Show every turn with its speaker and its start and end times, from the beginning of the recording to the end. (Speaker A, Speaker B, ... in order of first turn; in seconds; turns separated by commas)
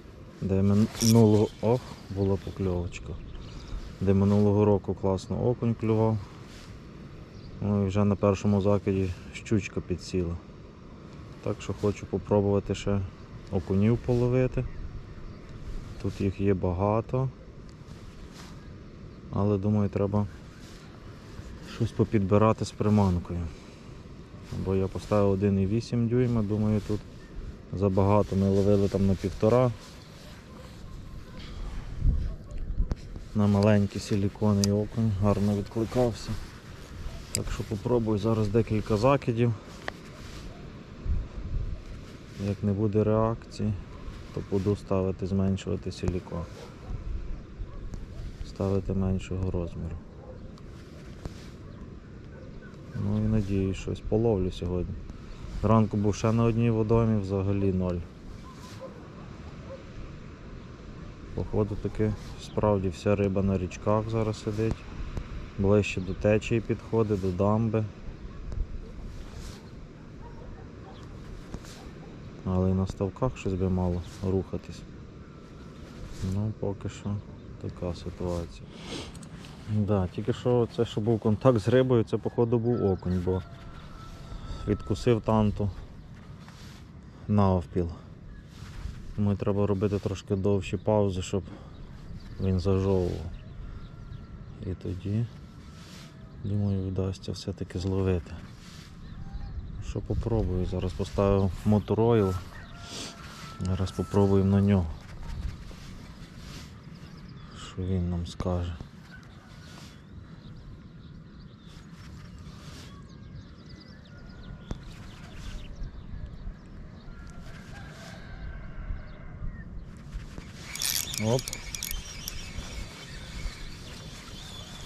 Speaker A: 0.4-3.2, Speaker A: 4.0-6.2, Speaker A: 7.6-10.4, Speaker A: 11.4-14.7, Speaker A: 16.0-17.3, Speaker A: 19.3-20.3, Speaker A: 21.6-23.5, Speaker A: 24.5-27.0, Speaker A: 27.7-29.8, Speaker A: 33.3-36.4, Speaker A: 37.3-39.6, Speaker A: 42.4-43.8, Speaker A: 44.3-46.5, Speaker A: 48.4-50.0, Speaker A: 52.9-55.0, Speaker A: 55.6-58.1, Speaker A: 61.3-64.8, Speaker A: 65.6-67.9, Speaker A: 72.4-74.8, Speaker A: 76.2-78.7, Speaker A: 79.7-83.4, Speaker A: 84.5-85.7, Speaker A: 87.2-88.0, Speaker A: 89.1-91.5, Speaker A: 92.4-93.3, Speaker A: 94.6-95.3, Speaker A: 96.4-98.4, Speaker A: 99.8-102.4, Speaker A: 103.6-104.9, Speaker A: 107.5-108.8, Speaker A: 121.2-121.6